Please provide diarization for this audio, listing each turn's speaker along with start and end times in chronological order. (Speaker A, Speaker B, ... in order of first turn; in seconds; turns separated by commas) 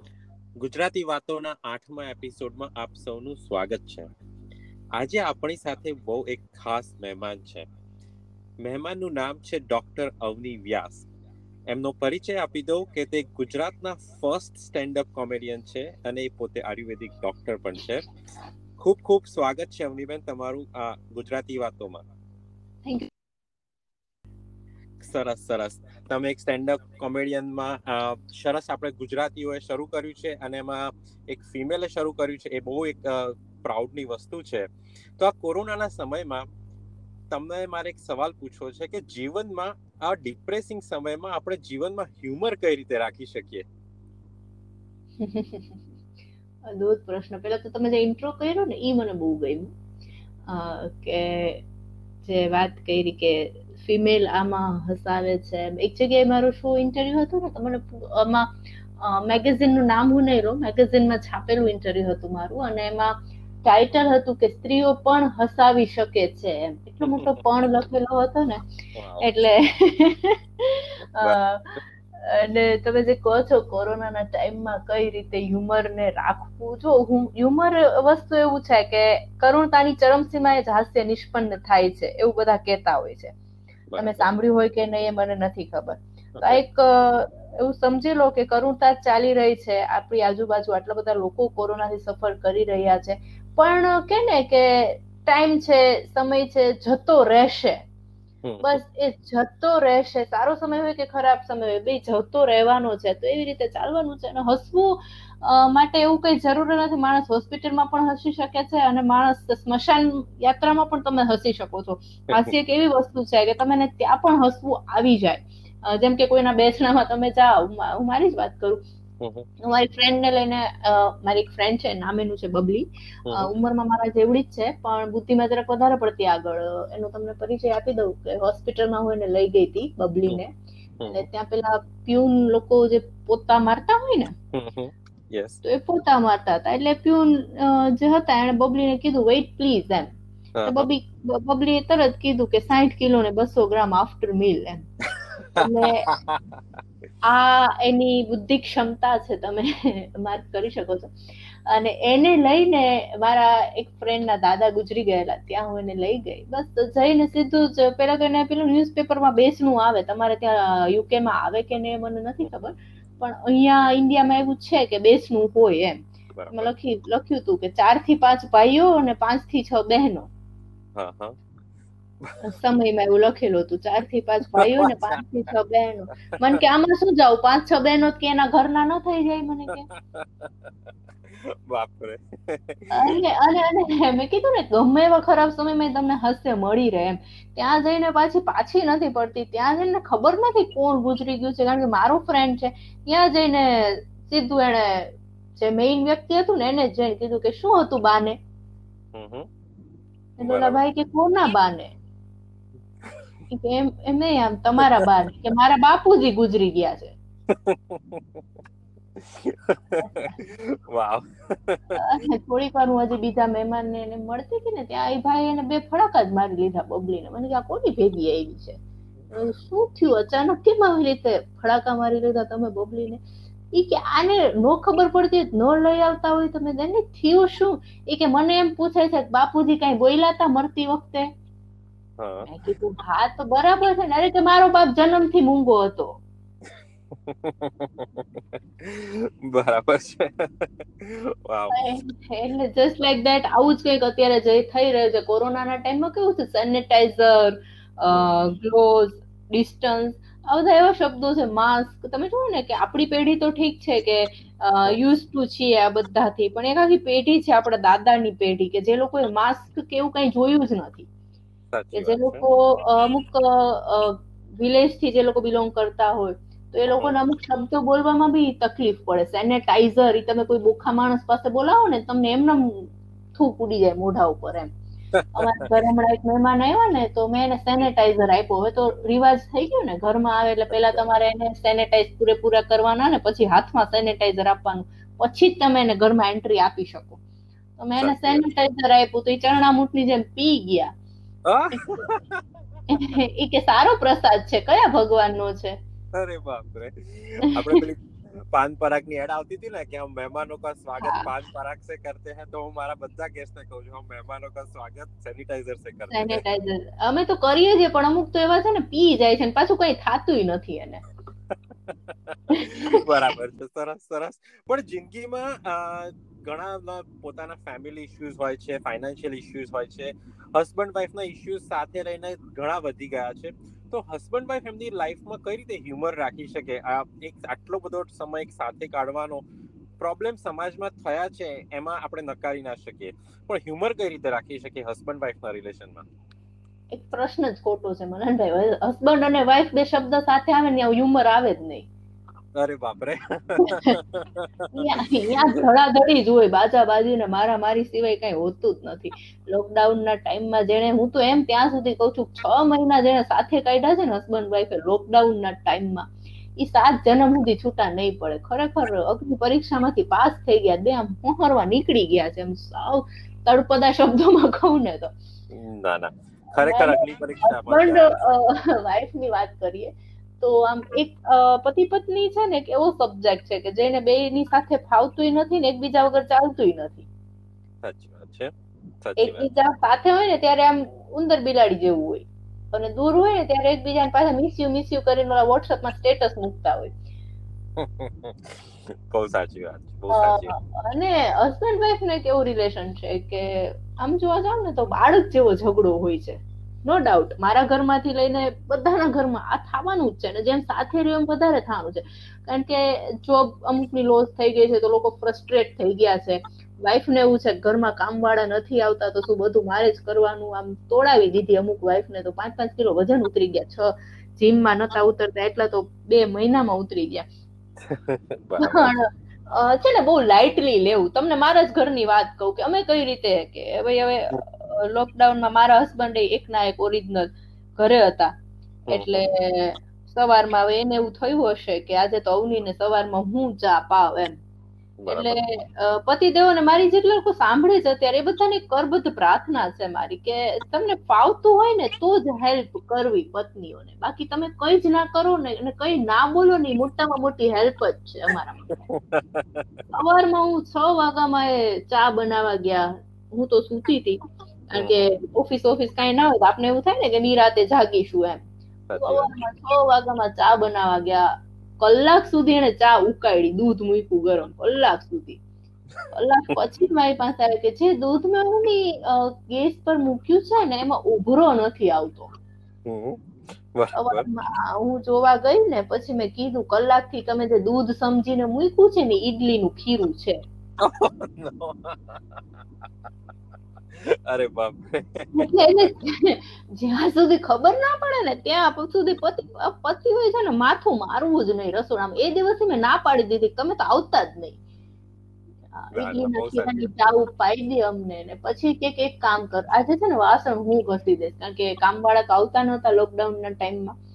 Speaker A: 0.6-4.1, Speaker A: 5.0-7.7, Speaker A: 8.6-11.1, Speaker A: 11.7-18.1, Speaker A: 18.8-22.0, Speaker A: 25.0-36.5, Speaker A: 37.3-43.7, Speaker B: 45.2-45.8, Speaker B: 46.7-49.7, Speaker B: 50.5-51.6, Speaker B: 52.3-68.6, Speaker A: 67.0-67.4, Speaker A: 69.0-69.3, Speaker B: 69.2-83.3, Speaker A: 83.9-84.3, Speaker B: 84.0-97.9, Speaker A: 86.3-86.6, Speaker A: 98.4-98.8, Speaker B: 98.6-118.8, Speaker A: 119.2-119.5, Speaker B: 119.6-130.5, Speaker A: 123.3-123.5, Speaker A: 131.0-131.3, Speaker B: 131.1-134.3, Speaker A: 134.5-135.6, Speaker B: 135.6-140.1, Speaker A: 140.6-140.9, Speaker B: 140.7-144.9, Speaker A: 145.4-146.6, Speaker B: 145.5-146.1, Speaker B: 147.2-170.3, Speaker A: 166.4-166.7, Speaker A: 170.9-171.4, Speaker B: 172.4-179.9, Speaker A: 174.5-175.2, Speaker A: 179.9-180.7, Speaker A: 181.2-183.2, Speaker B: 182.9-198.4, Speaker A: 199.1-199.5, Speaker B: 200.4-201.9, Speaker A: 200.4-200.8, Speaker B: 203.5-207.2, Speaker A: 204.8-205.1, Speaker A: 207.5-208.4, Speaker A: 209.2-212.0, Speaker B: 210.0-210.4, Speaker B: 211.9-218.8, Speaker B: 219.3-223.2, Speaker B: 223.7-231.3, Speaker A: 232.2-232.5, Speaker B: 232.4-236.2, Speaker A: 237.1-241.9, Speaker B: 241.7-261.1, Speaker A: 261.7-262.5, Speaker B: 261.9-274.7, Speaker A: 266.9-267.2, Speaker A: 275.1-275.7, Speaker B: 275.4-287.2, Speaker A: 280.7-281.0, Speaker B: 287.8-290.9, Speaker A: 288.0-288.5, Speaker A: 291.5-292.4, Speaker B: 291.7-292.1, Speaker B: 292.9-295.8, Speaker A: 296.1-306.4, Speaker B: 301.0-301.3, Speaker B: 306.1-311.0, Speaker A: 311.5-329.4, Speaker B: 312.5-313.0, Speaker A: 330.0-336.1, Speaker B: 336.9-341.9, Speaker A: 342.6-344.8, Speaker B: 343.6-344.0, Speaker B: 344.7-365.1, Speaker A: 365.5-368.2, Speaker B: 366.5-377.1, Speaker A: 377.8-378.5, Speaker A: 379.0-379.5, Speaker B: 379.2-386.9, Speaker A: 387.8-390.6, Speaker B: 390.1-417.3, Speaker A: 417.8-419.0, Speaker B: 418.6-428.3, Speaker A: 428.9-429.3, Speaker B: 428.9-434.4, Speaker A: 435.0-435.4, Speaker B: 435.1-448.8, Speaker A: 448.9-449.8, Speaker B: 449.9-458.4, Speaker A: 454.8-455.1, Speaker A: 458.9-459.4, Speaker B: 459.0-465.4, Speaker B: 466.1-472.3, Speaker A: 472.9-474.3, Speaker B: 473.9-480.4, Speaker A: 480.8-482.4, Speaker A: 483.9-485.9, Speaker B: 485.4-494.6, Speaker B: 495.7-504.0, Speaker A: 495.9-496.9